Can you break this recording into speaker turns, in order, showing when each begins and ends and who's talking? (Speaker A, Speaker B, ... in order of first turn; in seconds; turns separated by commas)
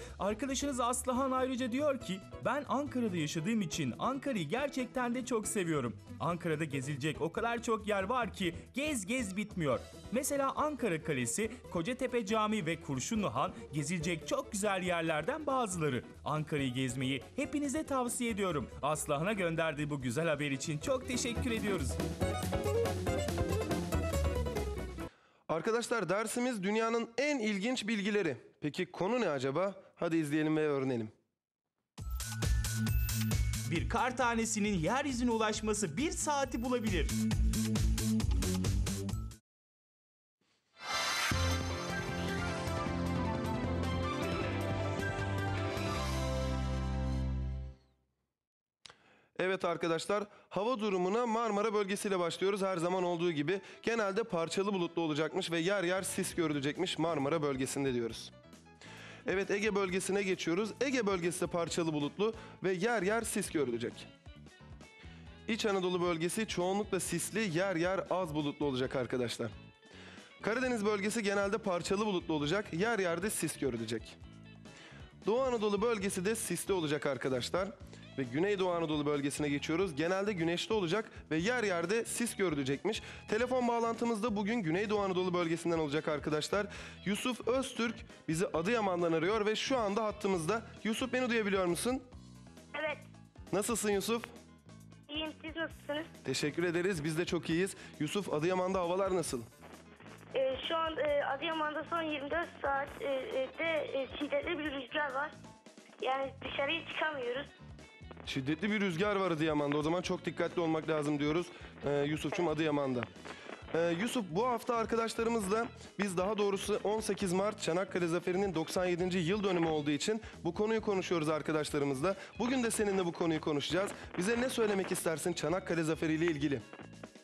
Speaker A: 0.2-22.0, Speaker B: 25.5-31.1, Speaker A: 33.6-37.1, Speaker B: 49.4-58.3, Speaker B: 59.3-64.1, Speaker B: 65.5-69.5, Speaker B: 70.4-74.2, Speaker B: 75.2-92.0, Speaker C: 92.7-93.0, Speaker B: 93.5-94.3, Speaker C: 95.1-96.1, Speaker B: 96.2-99.5, Speaker C: 100.3-105.3, Speaker C: 106.0-107.5, Speaker B: 108.3-113.1, Speaker B: 113.7-126.6